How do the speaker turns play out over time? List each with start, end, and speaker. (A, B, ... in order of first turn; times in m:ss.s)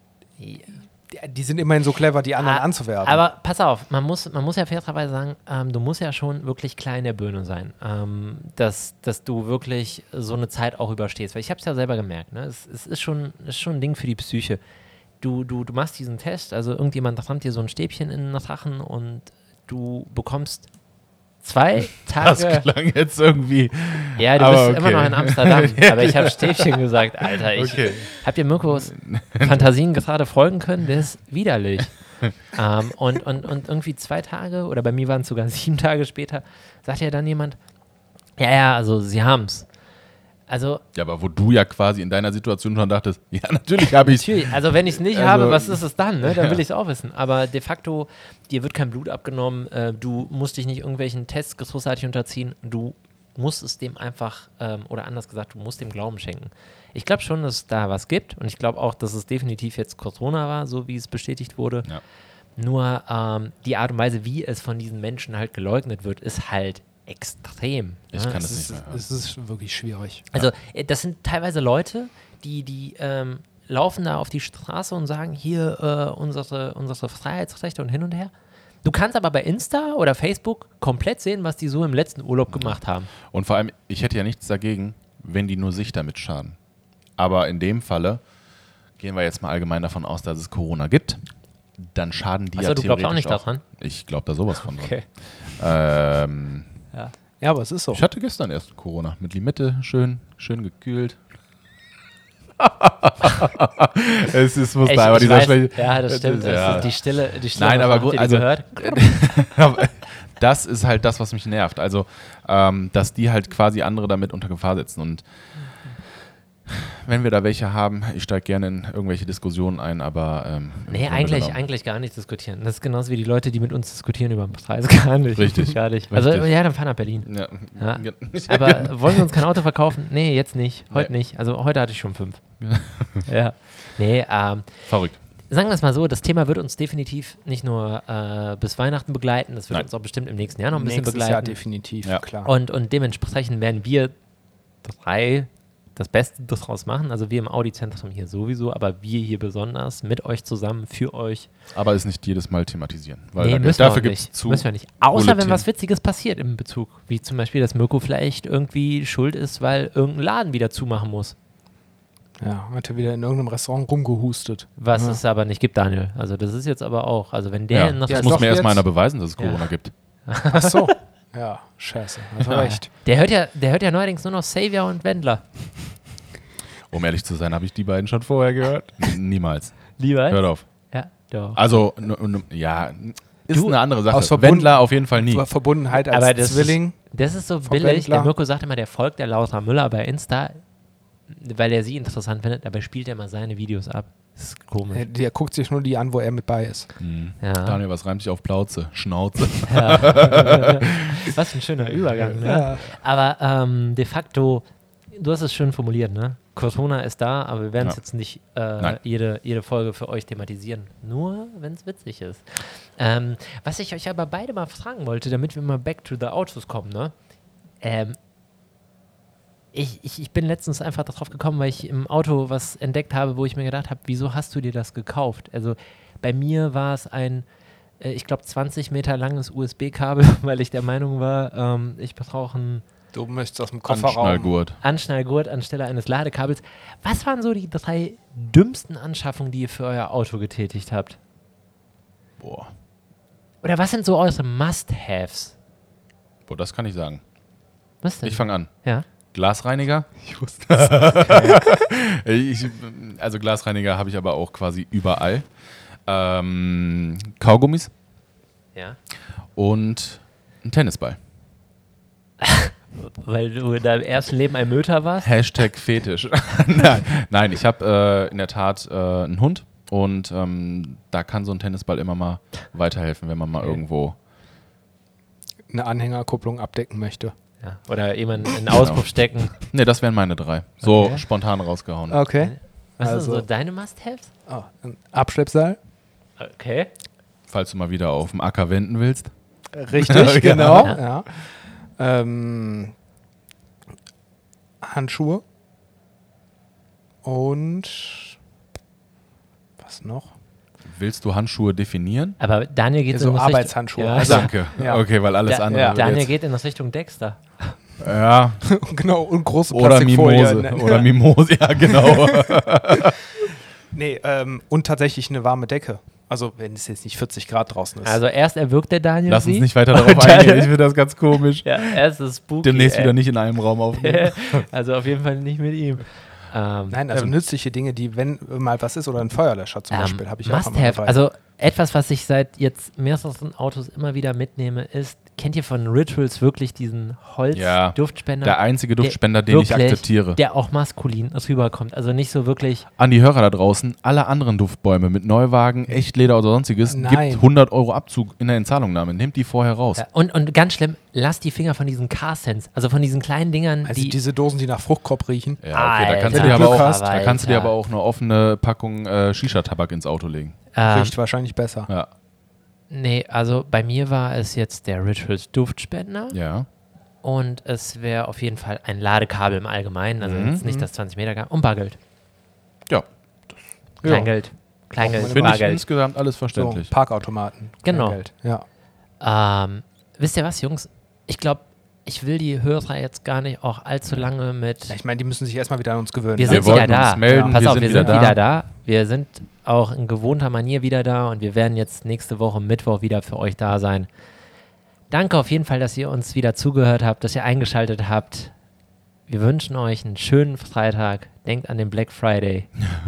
0:00.4-0:00.8 A
0:01.1-0:03.2 B
0:02.4-0:14.6 A
0:15.2-0:20.7 A
0:21.4-0:22.7 A
0:22.2-0:29.7 C
0:24.2-0:37.6 A
0:38.4-0:39.7 A
0:40.5-0:40.8 A
0:41.0-0:46.6 C
0:43.8-1:01.9 A
1:02.6-1:08.5 A
1:08.1-1:09.0 C
1:08.3-1:10.3 B
1:10.3-1:18.3 A
1:18.8-1:23.1 A
1:22.5-1:22.8 C
1:23.3-1:26.6 C
1:27.2-1:28.2 C
1:29.0-1:31.2 C
1:31.8-1:35.0 C
1:32.6-1:33.6 A
1:34.6-1:35.0 A
1:35.6-1:36.7 C
1:37.4-1:38.0 B
1:37.9-1:41.2 C
1:42.6-1:55.2 C
1:44.8-1:49.4 A
1:56.7-2:01.6 C
2:00.9-2:12.4 A
2:05.4-2:06.5 C
2:07.2-2:09.3 C
2:12.6-2:13.3 C
2:13.3-2:14.8 A
2:14.9-2:15.2 C
2:15.5-2:21.6 A
2:20.7-2:22.5 B
2:22.4-2:24.1 A
2:24.8-2:31.5 A
2:31.7-2:35.7 C
2:33.4-2:41.4 A
2:42.4-2:45.2 B
2:44.8-2:48.4 A
2:47.7-2:49.9 C
2:48.1-2:48.8 B
2:49.4-2:49.7 A
2:50.3-2:50.9 A
2:50.5-2:52.9 B
2:52.5-2:55.4 A
2:56.9-3:00.6 C
3:00.0-3:01.6 A
3:01.6-3:05.4 C
3:04.1-3:07.0 B
3:06.0-3:10.6 A
3:07.6-3:08.3 B
3:11.3-3:15.0 A
3:14.9-3:16.9 B
3:17.0-3:21.3 C
3:17.4-3:17.8 A
3:19.7-3:37.1 A
3:22.4-3:22.9 B
3:37.8-3:38.2 A
3:39.7-3:47.4 A
3:48.0-3:52.8 A
3:53.1-3:54.6 B
3:53.9-3:54.8 C
3:54.8-4:01.2 A
4:02.4-4:02.7 C
4:03.6-4:05.6 A
4:06.5-4:07.2 C
4:08.0-4:09.0 A
4:08.2-4:08.7 C
4:09.3-4:15.5 C
4:11.0-4:11.5 B
4:16.1-4:17.9 C
4:19.6-4:21.2 C
4:22.4-4:25.3 A
4:25.2-4:34.2 C
4:35.7-4:37.3 B
4:37.6-4:39.6 A
4:38.7-4:39.1 C
4:39.6-4:42.2 C
4:40.8-4:41.2 A
4:42.1-4:43.4 B
4:42.4-4:44.3 A
4:44.5-4:45.8 B
4:46.4-4:46.9 A
4:47.5-4:49.3 C
4:49.7-4:52.9 B
4:50.0-4:51.0 C
4:54.8-4:55.4 B
4:57.2-4:58.4 B
4:59.8-5:00.3 B
5:00.9-5:02.4 C
5:02.4-5:04.6 A
5:03.1-5:05.0 B
5:04.2-5:06.3 C
5:05.5-5:07.8 A
5:05.7-5:06.0 B
5:08.0-5:08.6 C
5:08.7-5:11.1 B
5:09.7-5:13.4 C
5:11.9-5:12.6 B
5:13.9-5:18.2 B
5:18.0-5:20.8 A
5:19.3-5:22.0 C
5:21.6-5:23.2 A
5:22.6-5:24.6 C
5:24.0-5:27.0 A
5:26.9-5:31.2 B
5:29.9-5:42.9 A
5:37.5-5:40.4 C
5:43.0-5:50.0 C
5:46.9-5:47.5 B
5:50.0-5:54.2 A
5:53.8-5:55.6 B
5:55.6-6:00.6 C
5:55.7-5:57.8 A
5:56.3-5:57.0 B
6:00.7-6:01.1 A
6:00.9-6:01.9 B
6:02.9-6:06.4 A
6:06.3-6:06.7 C
6:07.2-6:12.0 A
6:10.2-6:10.9 C
6:14.0-6:14.3 B
6:14.0-6:14.3 C
6:14.0-6:15.8 A
6:15.0-6:15.7 B
6:15.2-6:16.9 C
6:16.5-6:18.6 B
6:17.8-6:18.2 A
6:19.2-6:25.0 A
6:24.9-6:28.2 B
6:26.4-6:34.1 A
6:26.5-6:28.4 C
6:35.1-6:38.5 A
6:39.3-6:42.8 A